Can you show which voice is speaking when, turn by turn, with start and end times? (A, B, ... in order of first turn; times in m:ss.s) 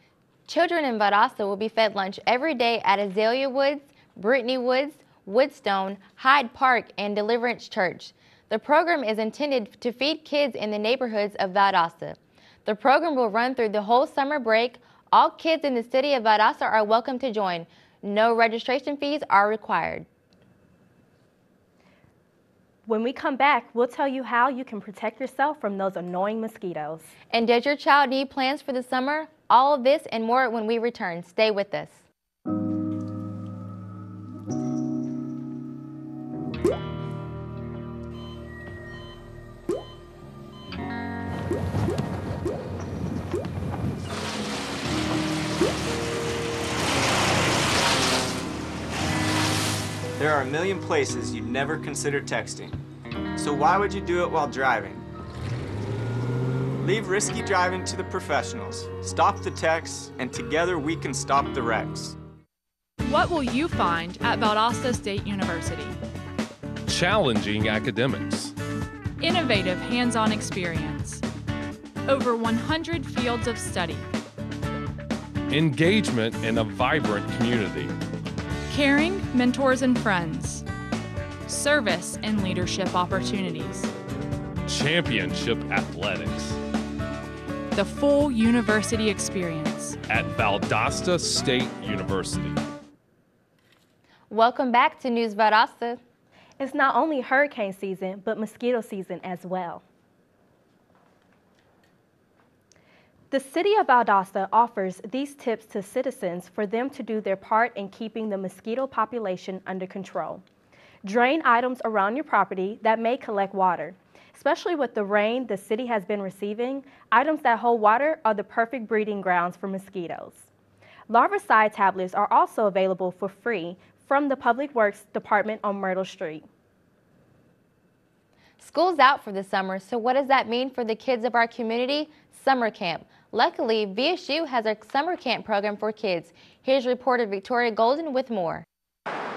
0:00.5-0:20.0 A
0:22.9-0:27.1 B
0:27.3-0:32.0 A
0:50.2-0:52.8 C
0:53.4-0:55.0 C
0:56.8-1:02.2 C
1:03.0-1:06.0 D
1:06.9-1:08.5 E
1:09.2-1:11.2 D
1:12.0-1:14.1 D
1:15.5-1:17.9 E
1:18.7-1:20.6 D
1:21.5-1:23.9 D
1:24.6-1:26.6 E
1:27.7-1:30.0 D
1:30.0-1:32.6 E
1:34.3-1:36.0 A
1:36.6-1:39.8 B
1:43.3-1:50.4 B
1:51.0-2:00.5 B
2:01.1-2:06.5 B
2:08.6-2:18.6 A